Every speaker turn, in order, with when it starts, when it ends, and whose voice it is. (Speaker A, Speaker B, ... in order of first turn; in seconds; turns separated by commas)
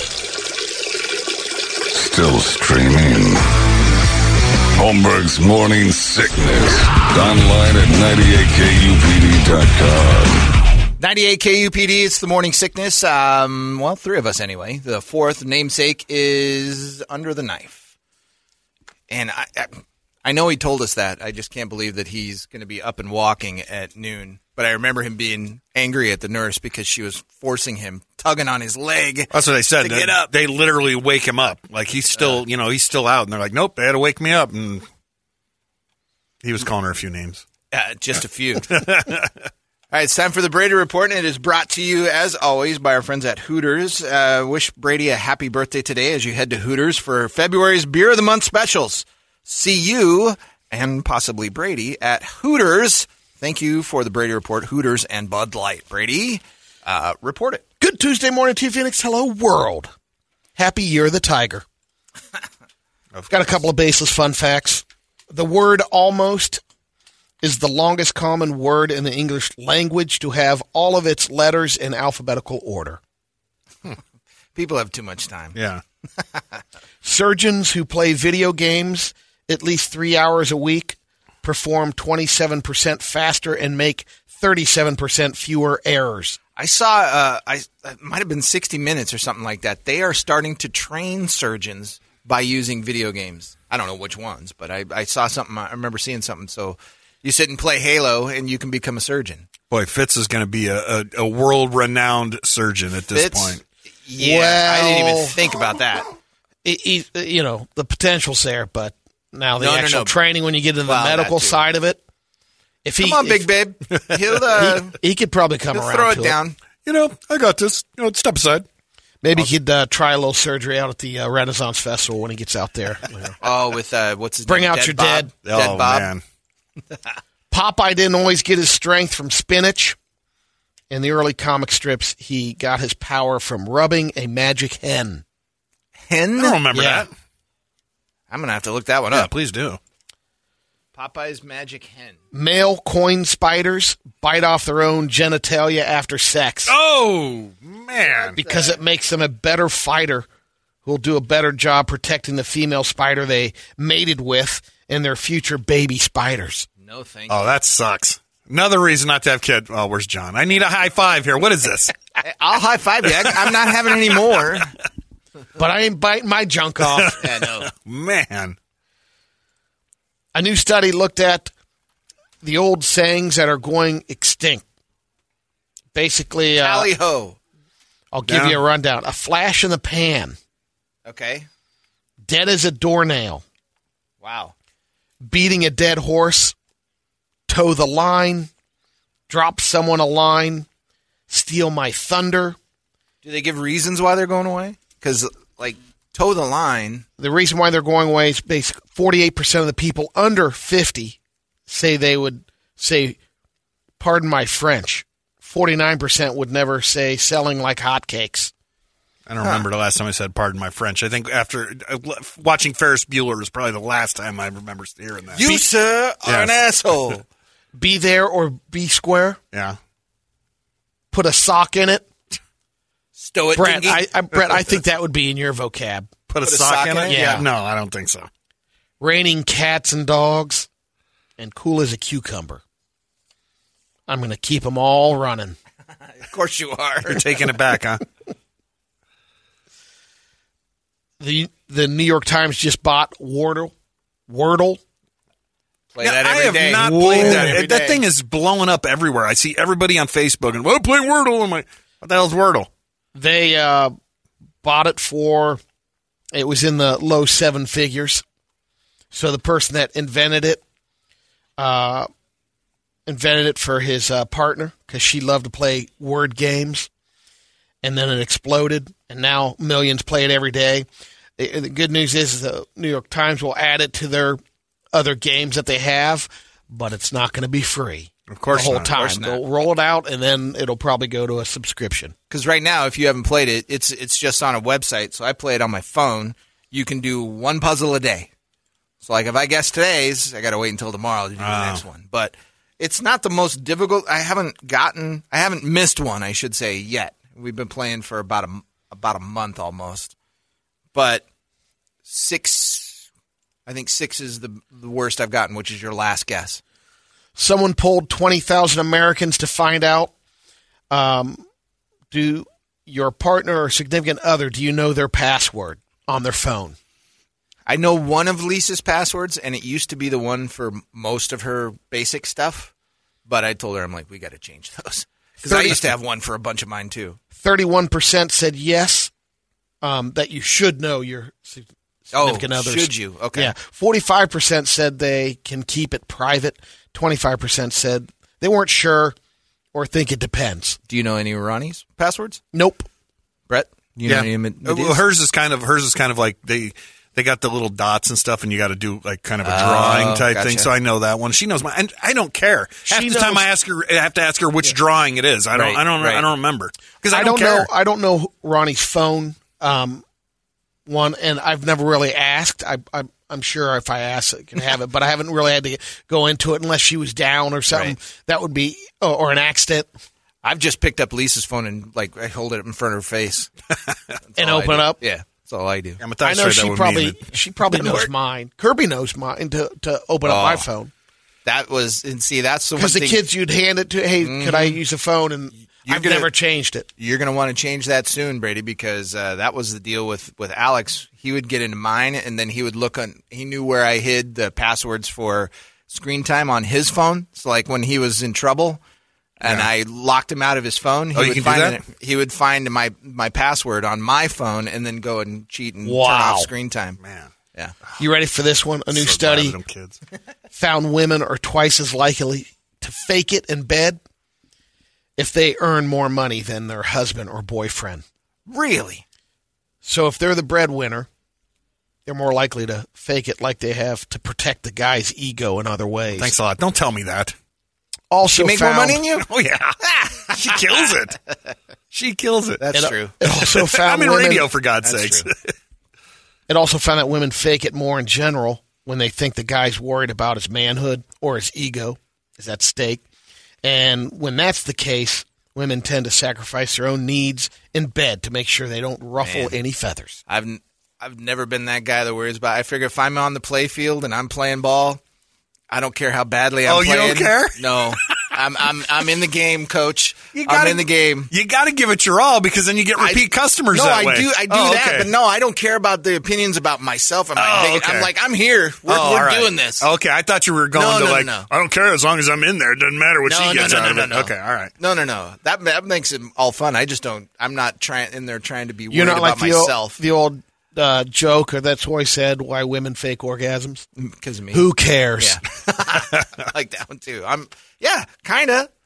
Speaker A: 1.9-3.5, Speaker A: 4.8-10.4, Speaker B: 11.0-17.8, Speaker B: 19.1-30.3, Speaker C: 29.3-34.9, Speaker B: 32.1-32.4, Speaker C: 36.4-37.4, Speaker B: 37.7-38.8, Speaker C: 38.7-39.3, Speaker B: 39.9-57.6, Speaker D: 57.8-59.9, Speaker D: 60.6-61.6, Speaker D: 63.3-66.6, Speaker D: 67.4-73.0, Speaker B: 74.5-75.6, Speaker C: 75.5-75.8, Speaker D: 77.0-86.4, Speaker B: 86.6-99.5, Speaker C: 99.7-103.6, Speaker B: 103.1-106.1, Speaker D: 104.2-105.4, Speaker D: 106.6-112.0, Speaker B: 109.6-110.2, Speaker B: 110.8-111.7, Speaker D: 112.8-113.5, Speaker B: 113.0-115.0, Speaker D: 114.6-116.4, Speaker B: 115.7-116.6, Speaker C: 116.8-118.7, Speaker D: 119.2-123.4, Speaker B: 123.4-126.1, Speaker D: 124.5-125.3, Speaker C: 125.5-126.2, Speaker D: 127.5-130.0, Speaker D: 130.9-135.2, Speaker B: 136.1-136.6, Speaker C: 136.4-137.1, Speaker D: 136.7-137.1, Speaker B: 138.3-139.3, Speaker C: 139.1-139.8, Speaker B: 140.9-142.2, Speaker D: 142.3-146.7, Speaker C: 146.7-148.4, Speaker B: 148.1-148.8, Speaker D: 148.4-150.3, Speaker D: 150.8-156.7, Speaker B: 156.8-157.4, Speaker C: 157.3-161.9, Speaker B: 162.2-164.7, Speaker D: 165.6-167.2, Speaker C: 167.0-168.6, Speaker B: 167.2-167.7, Speaker D: 170.3-171.5, Speaker D: 172.4-174.7, Speaker D: 175.9-176.9, Speaker B: 176.6-177.4, Speaker D: 178.1-180.4, Speaker C: 178.3-178.6, Speaker B: 181.1-181.5, Speaker D: 182.2-183.4, Speaker B: 184.2-184.5, Speaker D: 185.2-186.6, Speaker D: 187.5-188.5, Speaker D: 189.3-190.7, Speaker D: 191.3-192.6, Speaker B: 193.2-197.1, Speaker D: 197.2-203.2, Speaker D: 204.0-208.5, Speaker C: 209.3-215.6, Speaker B: 215.3-217.2, Speaker C: 216.2-216.5, Speaker D: 217.8-219.4, Speaker C: 219.5-219.8, Speaker D: 221.1-222.1, Speaker B: 223.2-224.1, Speaker D: 223.6-226.1, Speaker C: 226.3-228.3, Speaker B: 226.4-227.4, Speaker D: 227.1-227.5, Speaker D: 229.0-230.7, Speaker D: 231.4-232.6, Speaker D: 234.1-235.6, Speaker B: 236.2-237.2, Speaker C: 237.1-238.0, Speaker D: 241.2-243.7, Speaker D: 244.3-244.8, Speaker B: 245.9-248.0, Speaker C: 246.0-252.7, Speaker D: 247.2-247.6, Speaker D: 253.2-253.9, Speaker D: 254.6-255.6, Speaker D: 256.3-258.2, Speaker D: 259.1-260.6, Speaker D: 261.6-262.1, Speaker D: 263.1-266.9, Speaker D: 267.8-270.9, Speaker D: 271.4-274.4, Speaker D: 274.9-282.1, Speaker C: 278.3-278.9, Speaker B: 278.6-279.4, Speaker B: 282.3-288.3, Speaker B: 289.0-300.1, Speaker C: 291.4-291.8, Speaker B: 300.9-301.3, Speaker B: 302.1-303.1, Speaker B: 303.7-306.6, Speaker D: 307.4-310.1, Speaker D: 310.9-311.4, Speaker D: 312.1-316.8, Speaker B: 317.7-322.7, Speaker B: 323.3-327.2, Speaker D: 325.4-325.9, Speaker D: 327.4-329.1, Speaker D: 329.8-339.1, Speaker B: 332.1-333.5, Speaker D: 339.7-340.8, Speaker B: 340.9-342.4, Speaker D: 342.5-342.9, Speaker B: 343.5-345.0, Speaker C: 344.1-357.7, Speaker B: 349.4-350.7, Speaker D: 352.9-353.5, Speaker B: 355.5-356.3, Speaker D: 357.1-360.0, Speaker D: 360.9-369.9, Speaker B: 367.7-368.0, Speaker B: 370.4-373.5, Speaker B: 374.3-376.0, Speaker D: 374.4-375.0, Speaker C: 376.0-377.2, Speaker D: 376.2-380.9, Speaker B: 377.7-378.1, Speaker B: 380.2-380.7, Speaker B: 381.4-383.2, Speaker D: 382.8-386.9, Speaker B: 384.2-384.8, Speaker B: 385.8-386.3, Speaker B: 387.0-398.8, Speaker B: 399.4-407.0, Speaker C: 399.4-399.7, Speaker C: 401.1-401.8, Speaker D: 405.8-406.5, Speaker C: 407.0-407.3, Speaker D: 408.0-409.6, Speaker C: 408.9-410.0, Speaker D: 410.5-414.0, Speaker D: 415.2-418.0, Speaker B: 418.5-419.0, Speaker D: 419.8-421.1, Speaker D: 422.1-426.3, Speaker C: 426.1-427.4, Speaker D: 428.1-429.0, Speaker B: 428.3-429.3, Speaker C: 429.2-431.2, Speaker C: 431.9-432.6, Speaker B: 432.6-433.2, Speaker D: 432.7-434.5, Speaker C: 433.2-435.5, Speaker B: 434.8-435.3, Speaker D: 436.5-443.1, Speaker D: 443.6-450.2, Speaker B: 449.2-449.6, Speaker B: 450.3-455.0, Speaker B: 455.7-461.3, Speaker C: 456.6-458.0, Speaker C: 460.4-465.1, Speaker B: 463.0-469.9, Speaker C: 467.4-468.1, Speaker C: 468.9-474.7, Speaker B: 470.7-471.5, Speaker B: 473.3-480.0, Speaker D: 478.9-483.9, Speaker B: 484.0-488.7, Speaker D: 484.5-485.4